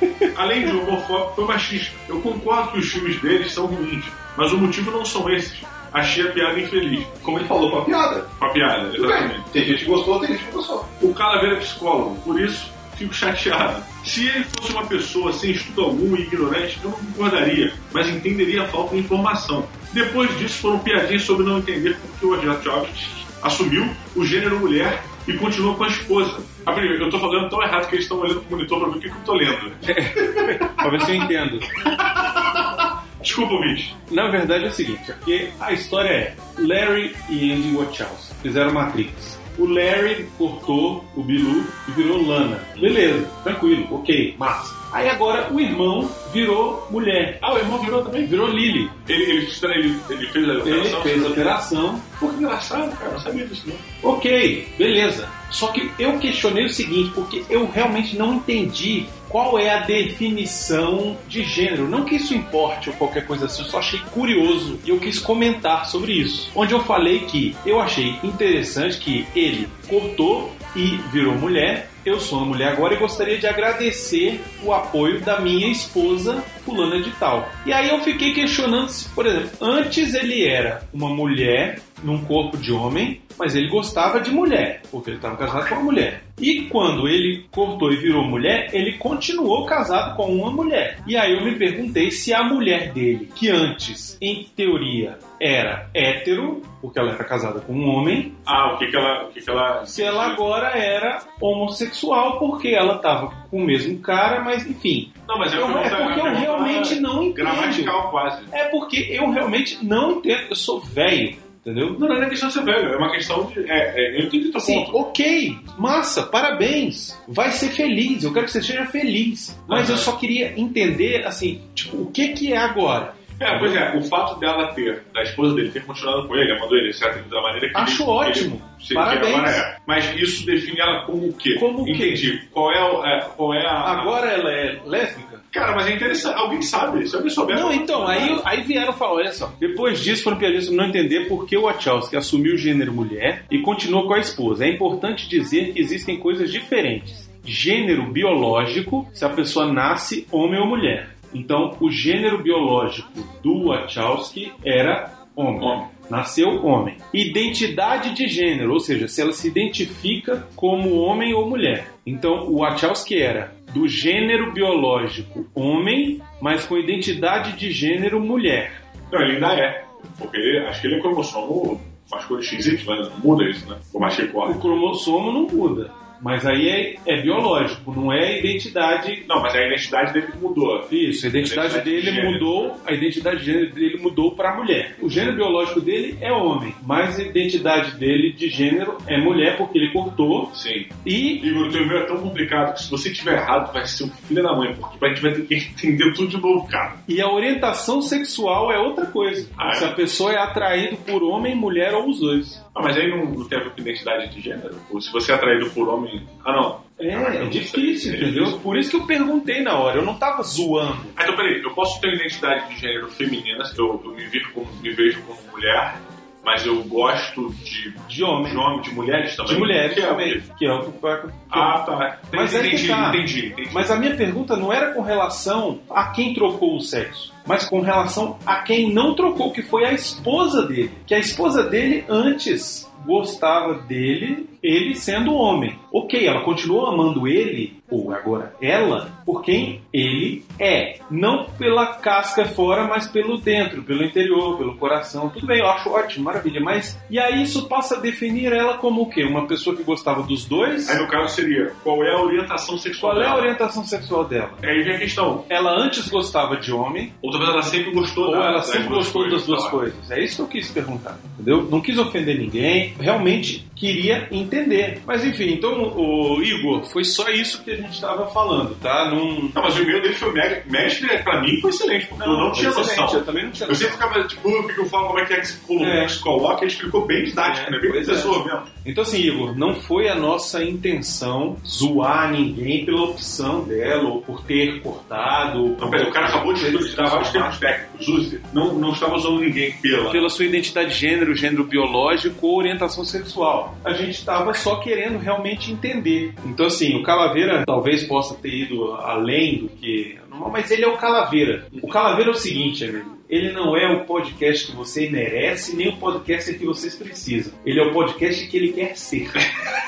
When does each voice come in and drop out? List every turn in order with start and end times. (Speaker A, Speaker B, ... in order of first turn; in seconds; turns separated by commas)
Speaker A: 0.3-7.2, Speaker B: 7.2-8.3, Speaker A: 8.4-9.5, Speaker B: 8.9-10.9, Speaker A: 11.0-31.3, Speaker C: 29.9-31.7, Speaker A: 31.8-33.9, Speaker C: 34.1-47.4, Speaker A: 47.4-48.5, Speaker C: 48.2-49.0, Speaker A: 49.0-51.5, Speaker C: 50.6-52.1, Speaker A: 52.2-53.8, Speaker C: 54.0-98.3, Speaker A: 98.4-100.4, Speaker C: 99.9-108.0, Speaker A: 105.3-108.5, Speaker C: 108.5-112.0, Speaker A: 111.9-115.0, Speaker C: 114.6-123.8, Speaker A: 119.7-120.1, Speaker A: 123.4-134.2, Speaker C: 127.7-129.6, Speaker C: 131.6-132.2, Speaker C: 133.8-135.4, Speaker A: 135.5-138.4, Speaker C: 137.5-168.8, Speaker A: 155.6-155.9, Speaker A: 169.1-174.7, Speaker C: 174.4-179.3, Speaker A: 179.3-182.6, Speaker C: 180.9-191.4, Speaker A: 190.5-197.0, Speaker C: 197.1-202.6, Speaker A: 199.6-199.9, Speaker A: 202.7-208.6, Speaker C: 207.0-211.2, Speaker A: 211.2-220.4, Speaker C: 218.1-218.6, Speaker C: 219.4-221.8, Speaker A: 221.5-224.0, Speaker C: 222.3-251.0, Speaker A: 250.8-253.5, Speaker C: 253.0-254.6, Speaker A: 254.6-255.4, Speaker C: 255.5-257.1, Speaker A: 257.2-259.8, Speaker C: 258.2-269.6, Speaker A: 269.5-278.7, Speaker C: 272.2-274.0, Speaker C: 275.8-276.2, Speaker C: 277.4-287.6, Speaker A: 285.8-290.2, Speaker C: 290.1-309.5